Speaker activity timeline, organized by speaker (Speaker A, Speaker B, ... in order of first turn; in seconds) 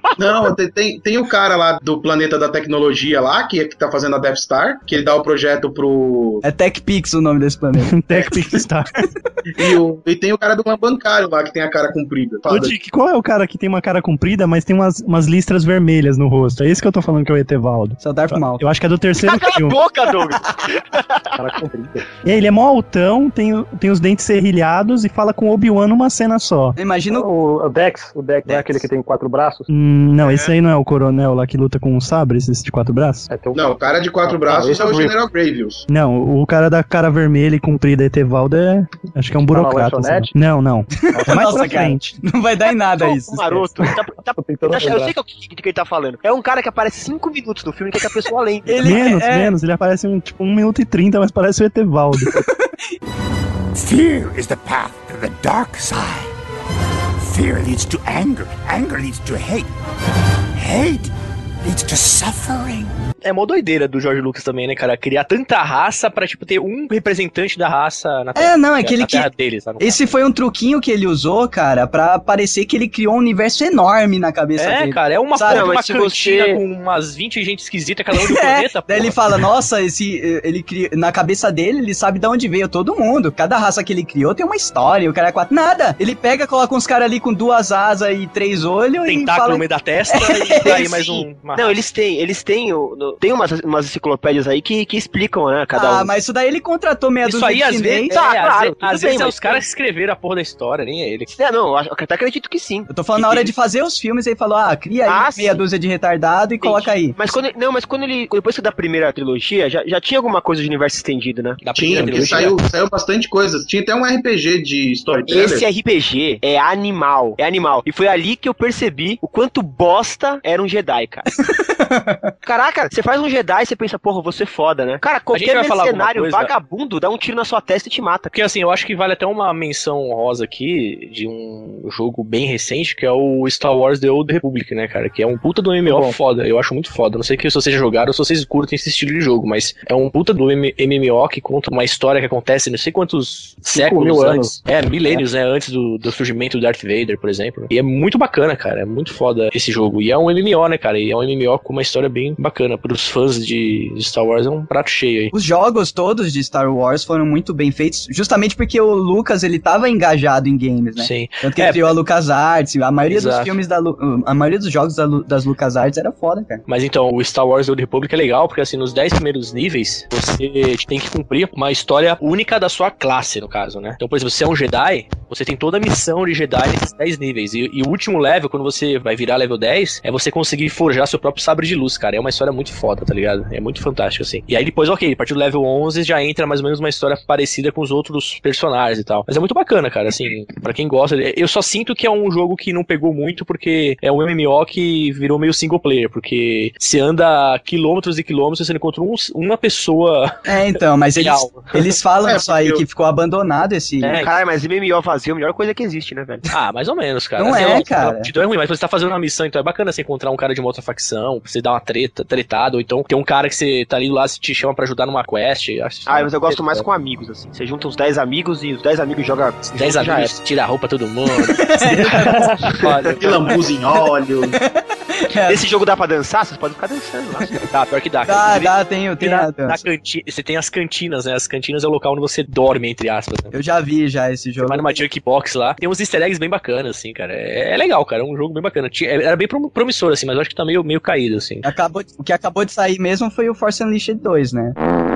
Speaker A: 0.2-6.4, 9.6-12.8, 33.5-35.9, 111.7-115.7, 202.2-202.8, 223.2-224.6
Speaker B: 6.4-8.3, 18.0-18.7, 26.8-27.3, 41.2-43.7, 48.7-49.5, 52.2-52.8, 68.4-75.7, 78.1-91.2, 95.8-98.2, 102.9-107.2, 121.5-122.3, 155.3-166.6, 200.5-204.2, 207.4-208.3, 221.5-222.7, 224.0-225.6, 228.2-229.8, 233.5-235.0, 241.6-244.8
Speaker C: 7.8-8.9, 12.5-19.8, 22.2-26.8, 29.7-33.3, 35.9-42.1, 48.8-52.4
Speaker D: 19.2-21.3, 43.0-49.0, 75.5-76.6, 90.6-96.1, 98.1-99.6, 101.3-103.5, 105.1-105.6, 106.6-112.4, 115.3-121.3, 122.4-128.3, 204.2-206.5, 216.1-220.4, 225.5-227.6
Speaker E: 21.4-22.1, 27.1-29.7, 33.3-35.2, 39.4-40.3, 41.1-42.0, 43.8-45.1, 135.8-136.2, 143.7-145.3
Speaker F: 53.7-56.3, 57.2-59.7, 60.5-61.1, 61.6-62.9
Speaker G: 63.2-70.0, 74.6-79.2, 89.0-91.8, 97.2-101.3, 111.6-112.6, 125.3-126.5, 128.3-155.3, 161.0-161.9, 163.1-163.5, 166.7-200.4, 201.2-201.8, 204.0-204.3, 206.5-216.9, 219.7-223.6, 227.7-233.5, 234.6-241.7